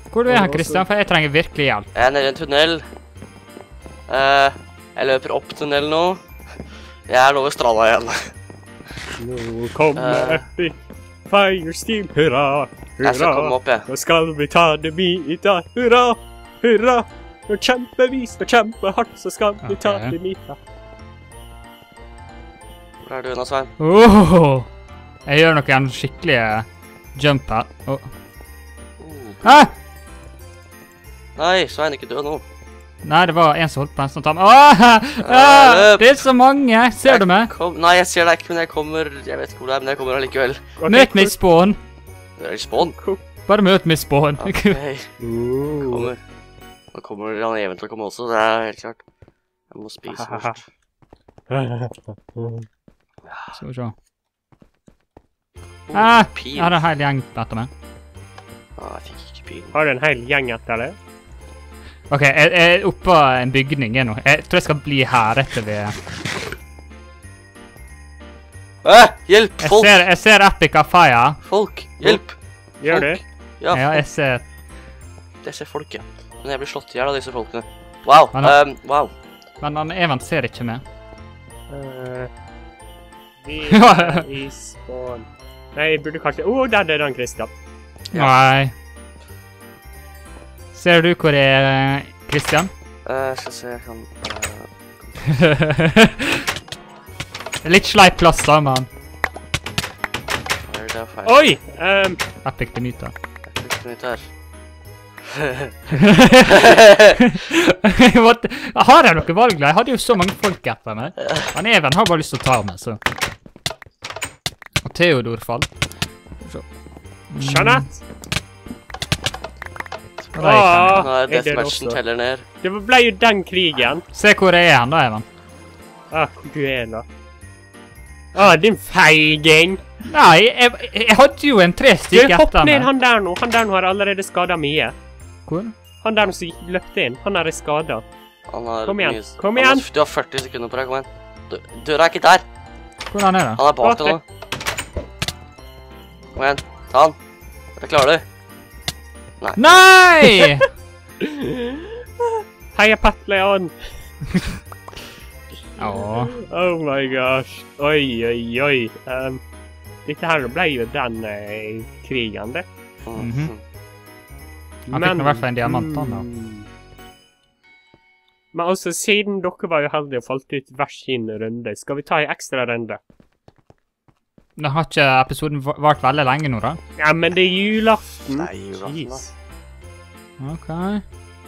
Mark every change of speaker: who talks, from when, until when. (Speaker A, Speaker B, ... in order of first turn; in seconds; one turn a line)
Speaker A: 0.1-1.9
Speaker B: 0.3-0.8
Speaker C: 1.9-2.9
Speaker C: 4.1-6.5
Speaker C: 7.1-8.3
Speaker B: 9.2-20.6
Speaker C: 9.9-10.5
Speaker C: 13.0-13.9
Speaker A: 19.6-20.1
Speaker C: 23.0-23.7
Speaker A: 23.8-24.7
Speaker A: 25.3-28.1
Speaker C: 29.0-29.7
Speaker A: 29.4-29.7
Speaker C: 31.4-32.4
Speaker A: 33.0-37.5
Speaker C: 35.2-36.1
Speaker C: 37.1-40.7
Speaker B: 40.8-41.4
Speaker A: 40.9-41.8
Speaker C: 42.4-43.0
Speaker B: 43.0-43.2
Speaker A: 43.5-44.8
Speaker C: 44.4-45.1
Speaker B: 45.2-46.1
Speaker C: 45.8-46.2
Speaker C: 46.9-49.0
Speaker C: 49.7-50.6
Speaker B: 50.1-50.6
Speaker B: 51.5-52.6
Speaker C: 53.2-53.6
Speaker A: 53.5-54.0
Speaker C: 55.9-56.8
Speaker A: 55.9-57.7
Speaker C: 58.8-59.7
Speaker B: 59.7-61.0
Speaker A: 62.1-66.0
Speaker C: 68.8-70.0
Speaker A: 69.6-71.4
Speaker C: 71.4-74.0
Speaker B: 72.8-73.2
Speaker A: 73.7-74.5
Speaker C: 75.4-79.1
Speaker A: 79.6-80.8
Speaker B: 81.7-82.3
Speaker B: 83.4-87.5
Speaker A: 83.7-84.3
Speaker C: 88.1-88.4
Speaker A: 88.1-88.7
Speaker A: 90.7-92.7
Speaker C: 93.0-95.4
Speaker A: 95.3-96.5
Speaker A: 97.6-98.9
Speaker C: 100.7-101.5
Speaker B: 101.2-102.2
Speaker A: 102.4-103.1
Speaker C: 103.5-104.3
Speaker C: 105.2-107.2
Speaker A: 106.0-113.0
Speaker A: 114.8-115.7
Speaker A: 116.4-116.7
Speaker A: 117.3-117.9
Speaker B: 117.4-118.0
Speaker A: 120.3-121.1
Speaker B: 120.4-122.0
Speaker C: 120.9-122.5
Speaker B: 122.6-124.0
Speaker A: 124.1-125.2
Speaker B: 126.1-127.0
Speaker B: 128.3-129.8
Speaker A: 130.1-132.9
Speaker B: 132.1-134.9
Speaker A: 135.5-135.7
Speaker B: 136.0-138.1
Speaker C: 138.5-142.4
Speaker B: 138.9-139.8
Speaker A: 143.1-143.6
Speaker C: 143.6-144.2
Speaker B: 143.8-144.2
Speaker C: 146.3-147.2
Speaker C: 147.8-148.3
Speaker C: 149.4-149.8
Speaker A: 149.6-150.7
Speaker B: 151.2-153.9
Speaker A: 155.8-156.4
Speaker B: 156.2-159.4
Speaker B: 160.1-162.7
Speaker C: 163.1-163.6
Speaker A: 163.2-163.5
Speaker B: 164.9-166.7
Speaker A: 164.9-166.3
Speaker B: 168.5-173.0
Speaker A: 174.6-176.8
Speaker B: 177.0-179.3
Speaker C: 178.3-179.3
Speaker A: 180.4-181.0